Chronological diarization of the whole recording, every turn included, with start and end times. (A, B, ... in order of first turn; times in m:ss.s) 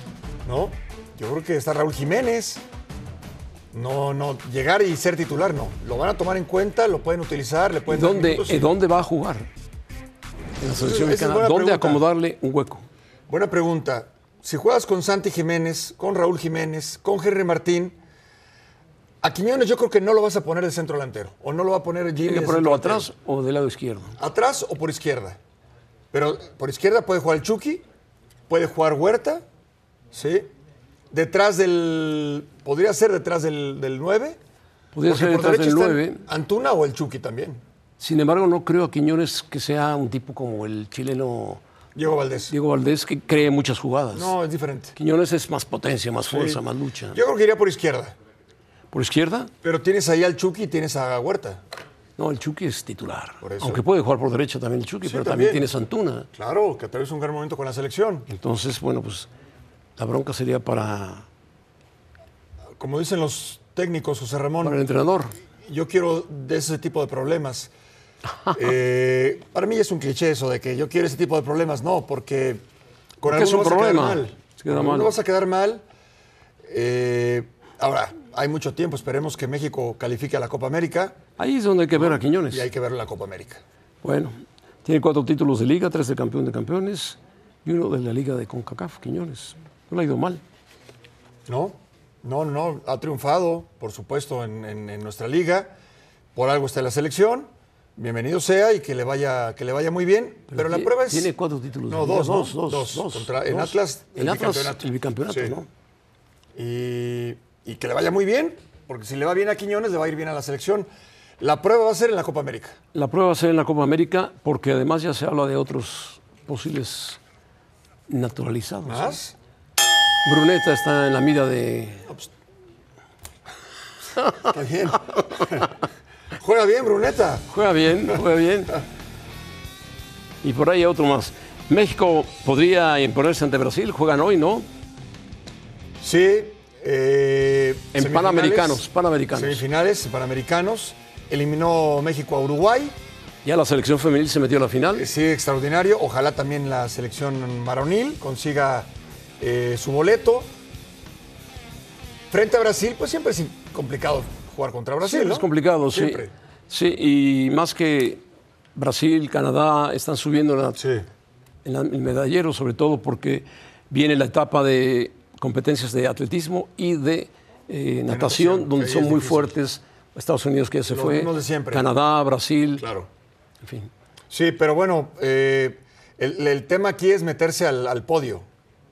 0:00.4-0:02.6 A
0:03.7-0:08.7 A
0:07.9-0:09.5 B
0:10.6-0:12.9 B
0:10.8-0:12.1 A
0:13.3-0:18.0 A
0:19.2-0:23.1 A
0:22.2-0:24.1 B
0:24.2-0:25.4 A
0:26.1-0:27.8 A
0:28.5-0:29.4 A
0:30.1-0:30.5 A
0:31.1-0:34.4 A
0:34.9-0:36.2 B
0:35.0-0:37.6 A
0:38.0-0:41.6 B
0:42.0-0:42.5 A
0:42.5-0:44.4 B
0:44.1-0:44.9 A
0:45.0-0:47.2 B
0:46.3-0:46.6 A
0:47.1-0:48.2 A
0:48.9-0:49.5 B
0:49.6-0:51.6 A
0:52.2-0:56.3 B
0:53.4-0:53.8 A
0:55.0-0:55.7 A
0:56.3-0:58.3 A
0:58.3-0:59.3 B
1:00.0-1:01.3 B
1:02.8-1:04.8 A
1:04.6-1:05.3 B
1:05.6-1:07.7 A
1:08.5-1:12.6 A
1:13.2-1:15.8 A
1:13.2-1:15.1 B
1:16.7-1:21.2 A
1:21.4-1:22.7 B
1:21.9-1:23.6 A
1:24.0-1:30.4 B
1:31.5-1:35.7 A
1:36.4-1:41.3 A
1:40.5-1:45.7 B
1:41.9-1:45.6 A
1:46.6-1:50.9 A
1:51.4-1:52.8 A
1:52.9-1:57.2 B
1:58.1-1:59.2 B
1:58.9-1:59.4 A
2:00.2-2:02.1 B
2:04.2-2:04.4 B
2:04.4-2:05.7 A
2:06.4-2:07.5 A
2:07.5-2:08.8 B
2:10.4-2:14.7 B
2:16.0-2:23.0 A
2:18.0-2:19.6 B
2:23.4-2:25.1 B
2:24.9-2:30.5 A
2:32.3-2:36.3 A
2:35.0-2:38.2 B
2:38.8-2:40.8 B
2:40.8-2:41.1 A
2:41.6-2:52.9 B
2:48.1-2:49.6 A
2:50.9-2:51.9 A
2:52.8-2:53.1 A
2:53.6-2:53.9 B
2:54.3-2:58.5 A